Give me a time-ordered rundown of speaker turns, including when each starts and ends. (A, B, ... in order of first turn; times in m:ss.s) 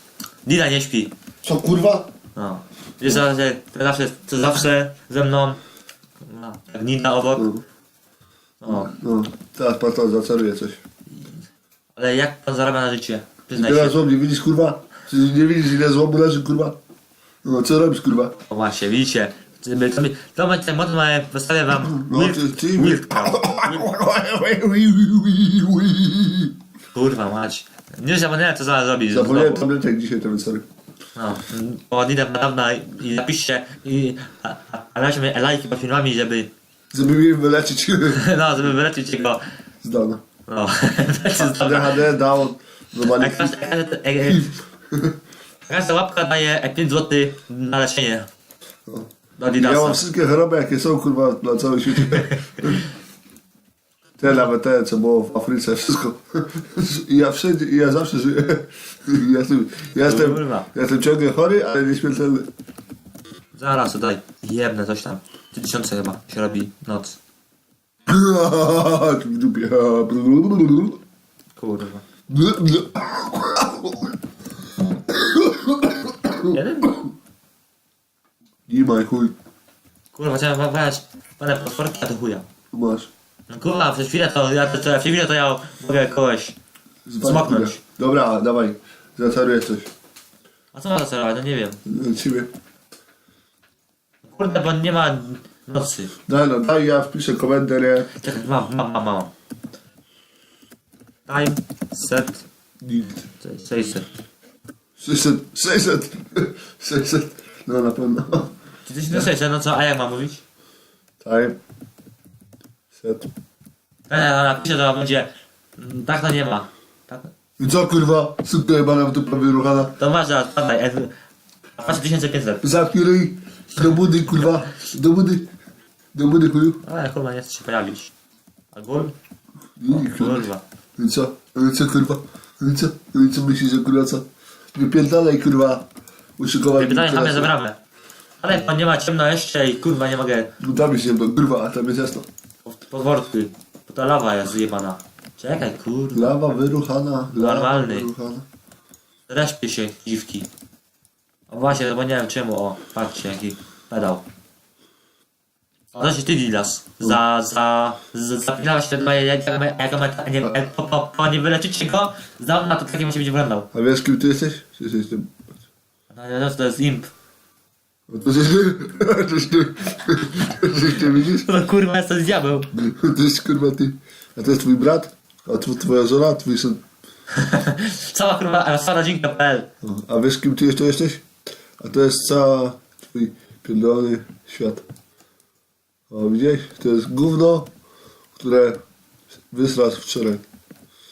0:00.4-0:01.1 A
0:01.4-0:02.1 B
0:02.4-0:05.6 A
0:06.2-0:07.5 A
0:07.4-0:07.6 B
0:08.6-0:08.9 A
0:08.7-0:10.8 B
0:12.0-0:14.0 A
0:13.5-0:16.8 B
0:17.4-0:18.3 B
0:18.5-0:23.5 A
0:21.7-0:26.6 B
0:26.9-0:29.6 A
0:29.1-0:30.6 B
0:31.2-0:36.5 A
0:36.9-0:38.2 B
0:38.1-0:39.4 A
0:39.8-0:40.2 B
0:40.5-0:42.0 A
0:41.3-0:43.6 B
0:43.1-0:44.5 A
0:44.2-0:45.2 B
0:45.7-0:48.3 A
0:48.8-0:52.8 B
0:49.4-0:50.0 A
0:54.2-1:02.5 B
1:00.0-1:00.7 A
1:03.5-1:07.2 A
1:08.0-1:11.0 B
1:11.6-1:12.0 A
1:12.3-1:14.2 B
1:14.9-1:16.6 B
1:16.5-1:17.0 A
1:18.7-1:19.3 B
1:20.1-1:22.4 A
1:22.7-1:23.1 B
1:23.5-1:26.6 A
1:27.0-1:29.9 B
1:27.2-1:27.8 A
1:30.7-1:31.8 A
1:31.8-1:32.5 B
1:34.2-1:36.1 A
1:36.3-1:38.1 B
1:38.1-1:39.3 A
1:41.3-1:42.4 A
1:42.8-1:43.2 B
1:43.4-1:44.1 A
1:45.0-1:48.5 B
1:48.8-1:50.4 A
1:51.2-1:51.6 B
1:52.9-1:53.3 B
1:54.1-1:57.3 A
1:57.6-2:00.0 B
2:00.0-2:01.1 A
2:01.8-2:02.6 A
2:02.6-2:05.5 B
2:06.1-2:06.8 B
2:06.8-2:08.1 A
2:08.7-2:09.1 A
2:09.8-2:15.9 B
2:09.9-2:10.6 A
2:16.4-2:17.5 B
2:16.8-2:17.8 A
2:18.4-2:20.5 A
2:20.6-2:22.2 B
2:22.6-2:26.4 A
2:26.1-2:28.4 B
2:27.3-2:28.1 A
2:29.3-2:30.5 A
2:31.5-2:34.2 A
2:35.9-2:43.7 A
2:43.7-2:45.4 B
2:46.1-2:47.1 A
2:48.1-2:51.5 B
2:51.4-2:52.7 A
2:52.7-2:56.8 B
2:57.3-2:59.7 A
2:59.8-3:01.2 B
3:01.8-3:04.8 B
3:06.1-3:07.7 B
3:08.4-3:08.8 B
3:09.5-3:10.4 B